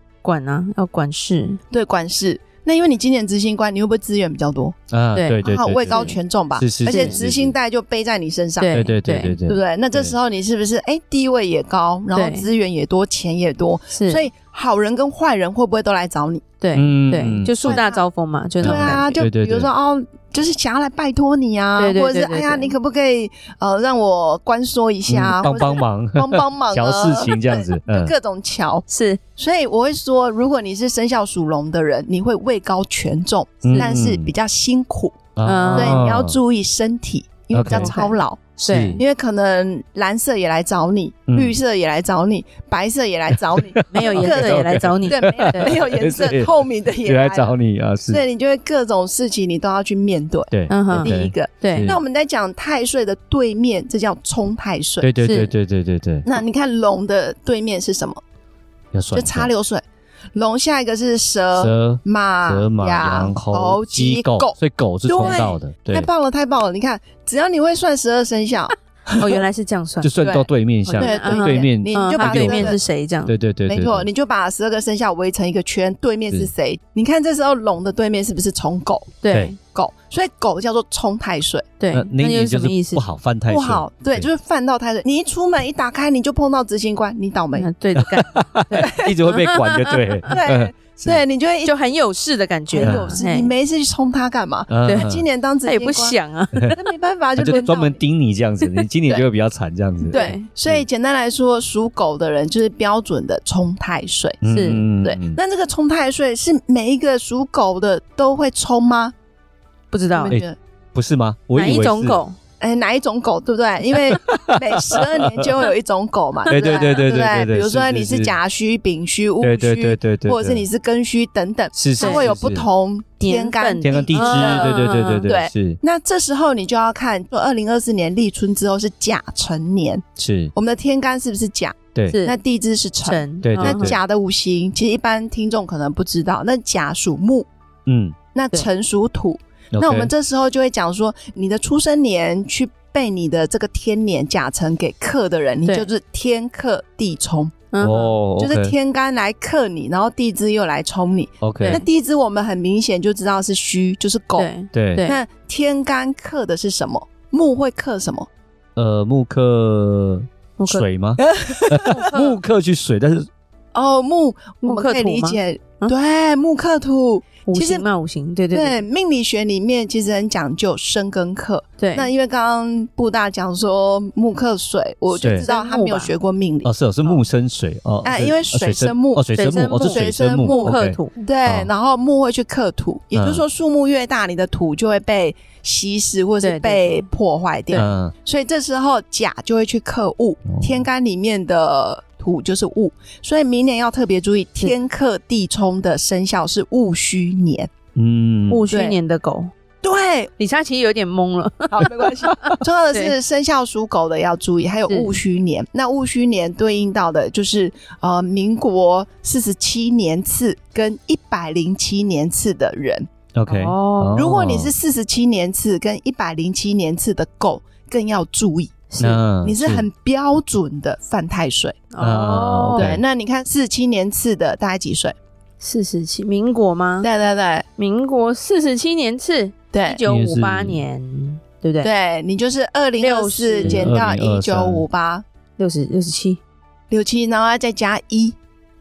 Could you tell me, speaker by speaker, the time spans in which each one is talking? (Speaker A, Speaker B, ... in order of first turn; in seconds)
Speaker A: 0.2-1.6, 5.1-6.1, 6.8-7.2, 8.6-9.4, 12.1-12.4, 13.9-14.2, 16.6-19.2, 21.8-22.7, 28.9-29.2, 33.6-33.9, 35.4-36.1, 37.7-39.0, 43.9-45.7, 50.7-51.9, 55.2-55.5, 65.2-65.5, 69.1-70.2, 70.8-73.3, 79.2-79.6, 81.8-83.0, 87.5-90.3, 91.6-93.5, 94.8-96.8, 100.1-100.4, 104.5-104.8, 109.9-110.3, 111.5-112.3, 116.5-116.9, 122.0-122.3, 123.2-125.3, 132.1-132.4, 133.0-134.0, 147.7-148.1, 154.4-155.2, 160.6-160.8, 161.8-162.4, 164.6-165.9, 167.5-168.8, 171.8-172.1, 175.2-176.1, 179.3-181.2, 186.4-187.1, 198.5-199.5, 200.4-203.1, 204.9-205.1, 213.5-214.2, 218.9-219.2, 221.9-222.9, 225.6-227.1, 227.8-231.9, 233.0-233.9, 235.6-236.4
Speaker B: 1.7-4.8, 5.4-8.8, 9.4-16.4, 17.6-18.0, 18.6-28.9, 29.4-35.2, 35.7-47.5, 48.1-55.1, 56.2-58.2, 59.1-59.8, 60.3-69.4, 70.2-70.5, 71.0-72.8, 73.7-79.2, 79.7-81.7, 83.5-87.7, 88.8-89.1, 90.3-91.7, 92.7-96.2, 96.7-98.0, 100.1-104.4, 105.0-109.1, 110.1-110.5, 112.6-137.5, 138.3-147.5, 148.4-154.5, 155.0-158.3, 161.2-161.9, 163.7-167.8, 168.5-176.7, 178.0-197.7, 198.7-199.0, 199.8-200.3, 201.7-213.1, 214.1-218.8, 219.4-221.8, 222.7-225.1, 227.0-227.7, 229.7-230.0, 231.8-235.2, 236.9-238.3
Speaker C: 4.9-7.5, 8.7-10.1, 16.7-17.8, 18.6-19.7, 25.1-28.1, 33.6-34.3, 35.4-36.4, 37.5-37.9, 38.6-39.0, 41.3-41.5, 43.5-48.2, 50.5-52.0, 55.0-56.2, 58.9-59.5, 61.5-66.1, 70.0-74.1, 79.3-79.5, 81.9-84.3, 87.9-91.2, 92.8-93.1, 94.7-95.2, 97.3-100.8, 104.4-105.4, 110.3-112.2, 114.1-115.6, 116.5-118.3, 119.4-120.6, 121.7-122.7, 123.8-125.8, 130.2-130.5, 133.4-134.0, 137.8-138.2, 139.7-140.1, 147.8-148.7, 151.4-151.8, 154.7-155.0, 158.8-163.3, 175.2-175.5, 176.6-181.7, 183.1-183.4, 187.7-188.1, 190.5-190.8, 197.9-198.6, 213.3-214.7, 219.0-219.8, 222.0-223.0, 230.0-230.8, 233.6-234.8